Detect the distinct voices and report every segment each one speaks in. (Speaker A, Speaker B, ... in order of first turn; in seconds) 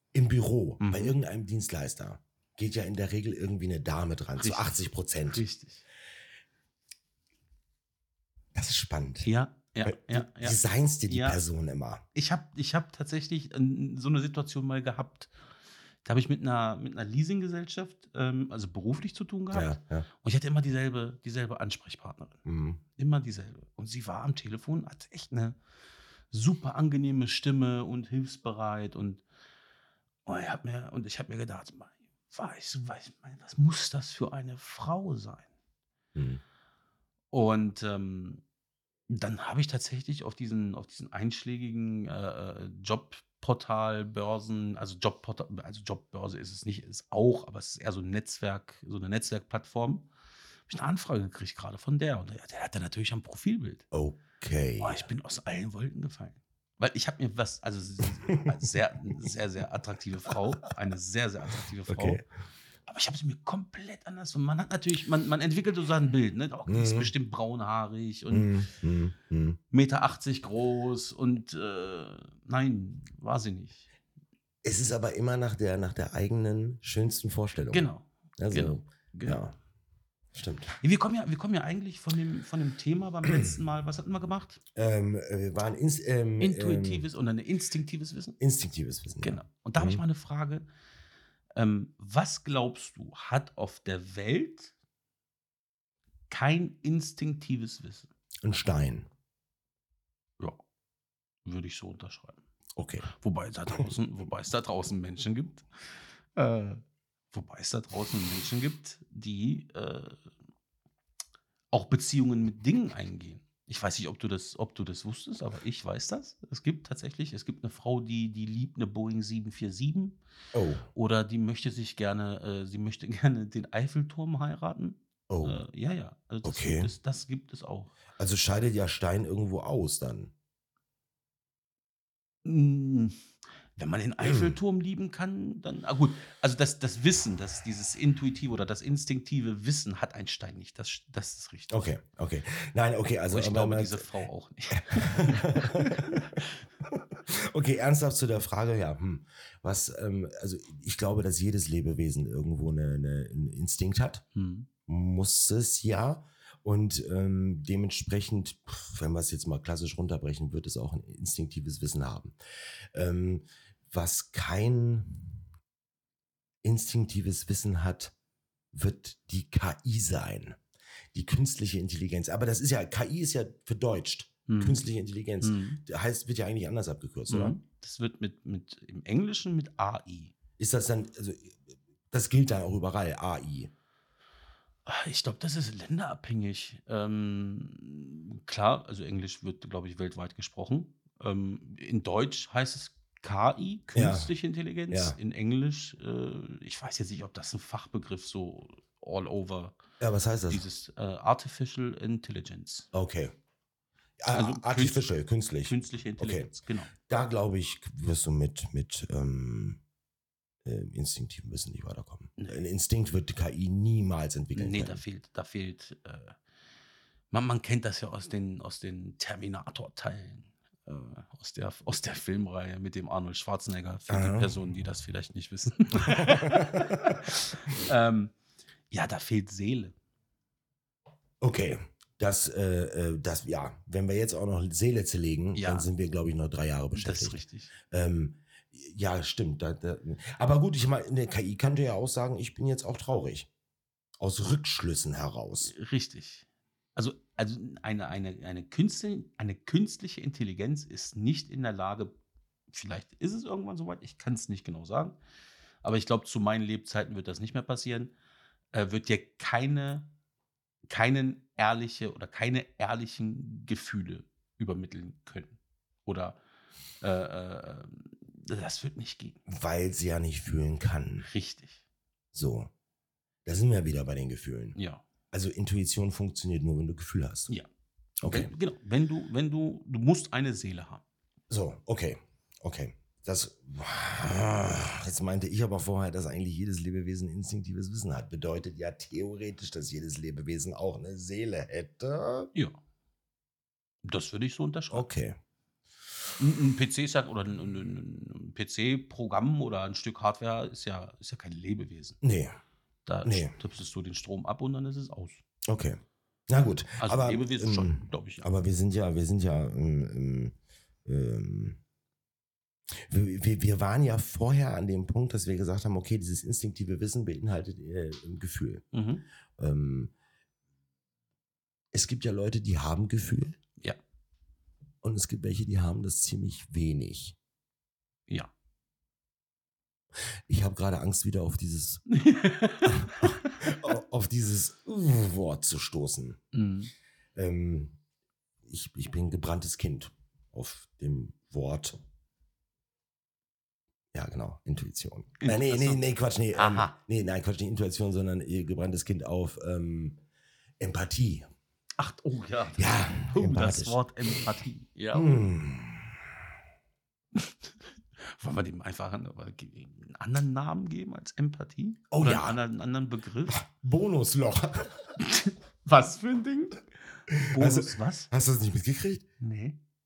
Speaker A: 0.1-5.4, 8.5-9.3, 9.8-12.0, 19.5-20.1, 22.4-22.8, 36.1-36.4, 53.9-55.1, 61.9-62.2, 66.7-67.1, 68.3-69.6, 74.6-79.5, 80.3-80.8, 84.7-87.0, 88.4-90.0, 98.4-99.1, 102.8-103.1, 120.5-120.9, 125.3-125.6, 126.4-126.9, 128.2-130.3, 134.2-134.6, 141.7-144.0, 144.8-154.2, 154.9-162.3, 162.9-165.4, 166.6-168.1, 168.7-170.6, 171.1-177.6, 180.6-181.6, 182.1-183.7, 193.9-194.3, 194.9-195.2, 200.0-200.6, 202.9-203.3, 204.2-206.5, 207.0-209.8, 210.6-215.0, 224.1-224.5, 226.3-227.2, 231.4-243.5, 244.2-245.7, 269.5-271.3, 272.3-272.7, 273.4-274.8, 275.3-277.5, 278.2-278.5, 281.5-292.5, 294.9-295.4, 302.2-302.6, 303.2-303.5, 305.7-310.5, 311.1-311.8, 313.0-318.8, 319.6-320.1, 321.9-323.6, 325.0-327.4, 330.5-332.0, 332.9-336.4, 337.4-337.9, 338.6-342.0, 344.1-350.2, 350.8-351.5, 352.8-354.4, 355.1-356.2, 362.1-362.6, 363.5-365.0, 367.3-369.2
Speaker B: 0.8-1.1, 4.3-5.8, 9.2-11.4, 12.1-15.3, 16.0-22.4, 23.0-25.6, 26.3-29.2, 30.2-35.5, 37.3-38.4, 39.1-50.1, 50.7-53.8, 54.8-62.2, 62.9-68.5, 69.7-73.9, 77.7-79.4, 80.8-84.6, 86.4-88.4, 89.2-90.7, 91.5-94.7, 96.3-98.1, 101.4-102.4, 103.1-110.2, 111.7-120.2, 120.9-127.9, 132.4-133.2, 133.8-141.9, 143.3-146.4, 154.3-154.7, 174.5-174.8, 175.4-175.8, 177.3-180.3, 184.8-199.8, 200.5-202.9, 204.3-205.1, 205.6-206.9, 214.5-216.4, 217.3-228.3, 228.9-229.9, 235.6-235.9, 236.9-237.7, 245.7-252.1, 252.7-255.2, 255.8-258.1, 258.7-260.1, 260.9-266.4, 267.0-269.4, 271.2-271.8, 274.8-275.1, 278.3-281.0, 294.0-295.1, 296.4-302.2, 303.1-305.4, 307.0-308.4, 318.9-319.2, 332.1-333.6, 336.5-336.9, 345.4-346.9, 352.0-355.4, 358.2-363.6, 365.2-366.8, 367.4-368.3, 369.4-369.8